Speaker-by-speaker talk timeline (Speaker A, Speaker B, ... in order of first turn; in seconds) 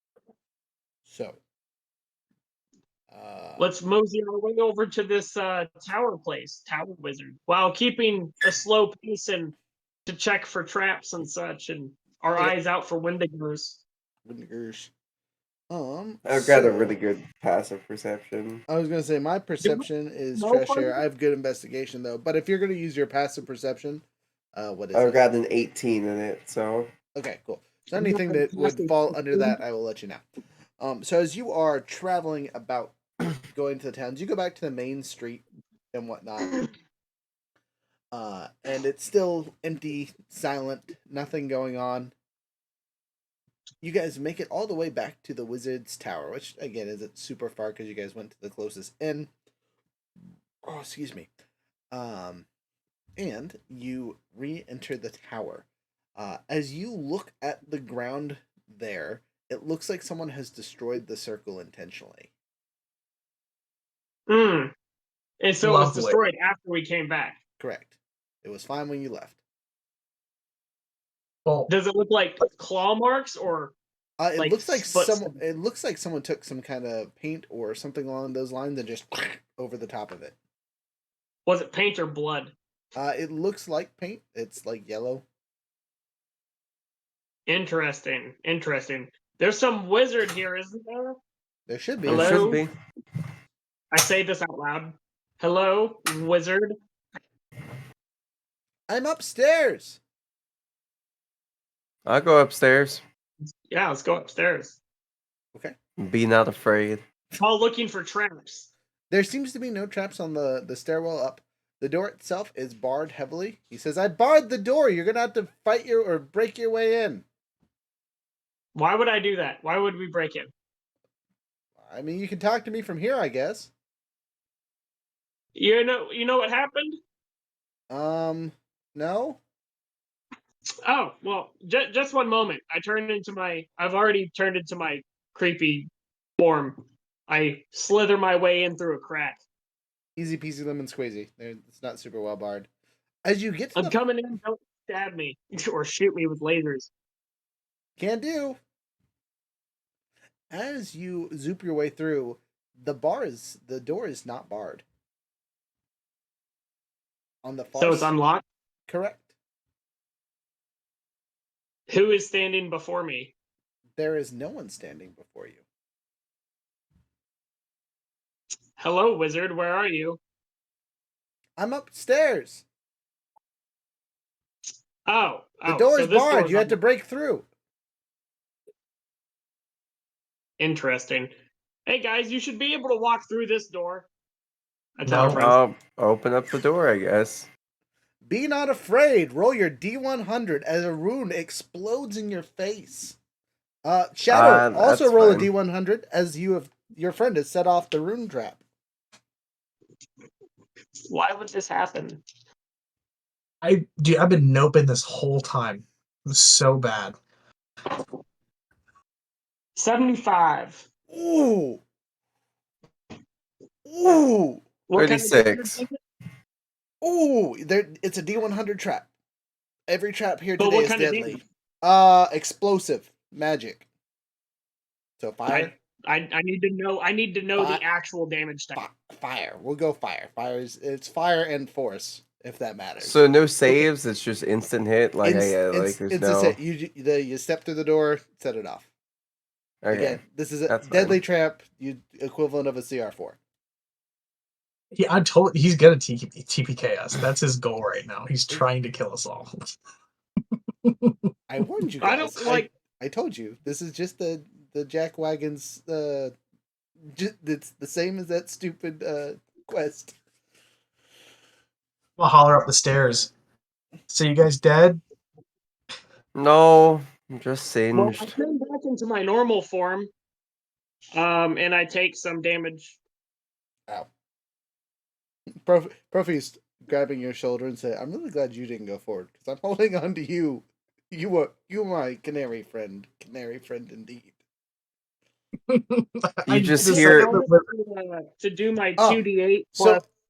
Speaker A: 1.1-1.4, 3.1-3.7, 14.2-14.9, 15.7-17.0, 18.7-24.0, 24.6-25.3, 27.1-30.2, 30.8-33.0, 33.5-36.6, 38.1-42.1, 43.8-49.3, 50.6-51.3, 51.9-52.5, 53.2-62.3, 67.6-69.4, 74.2-80.4, 83.0-85.2, 91.7-92.5, 98.9-100.0, 109.1-117.3, 121.8-123.7, 127.9-129.4, 140.2-142.7, 143.2-144.0, 148.0-148.6, 150.5-154.8, 157.4-158.2, 158.9-159.3, 164.0-165.6, 171.6-172.7, 175.7-177.5, 188.2-193.2, 193.8-198.6, 211.1-211.8, 213.8-214.6, 217.0-219.1, 219.9-223.9, 225.2-225.7, 227.6-227.8, 228.8-233.9, 235.2-238.9, 239.9-243.4, 251.5-256.3, 257.1-260.2, 275.6-284.3, 289.0-290.0
Speaker B: 3.6-9.5, 10.1-13.8, 19.6-21.0, 27.9-29.6, 64.3-64.7, 65.4-67.4, 71.7-73.8, 74.4-75.3, 81.5-82.5, 87.5-91.2, 92.1-92.6, 93.9-96.7, 103.7-104.8, 107.3-108.7, 118.8-120.5, 125.5-126.9, 130.9-139.4, 143.8-146.9, 157.8-158.4, 161.9-163.3, 168.8-170.2, 175.1-176.8, 180.6-181.3, 181.9-184.1, 185.0-185.6, 201.1-202.2, 209.8-210.9, 214.9-216.0, 220.6-221.4, 225.5-228.8, 252.0-252.7, 267.9-270.1, 271.1-273.0, 286.8-290.1
Speaker C: 16.2-18.6, 24.9-26.9, 92.0-92.7, 102.1-103.0, 106.0-107.0, 185.3-187.5, 194.3-195.5, 215.0-215.8, 233.0-236.6, 239.8-241.2, 266.4-268.3, 286.5-287.4
Speaker D: 65.6-66.2, 71.5-71.7, 185.1-185.5, 203.6-207.2, 244.9-249.7, 250.8-251.2, 262.2-263.3, 264.1-265.0, 285.7-287.7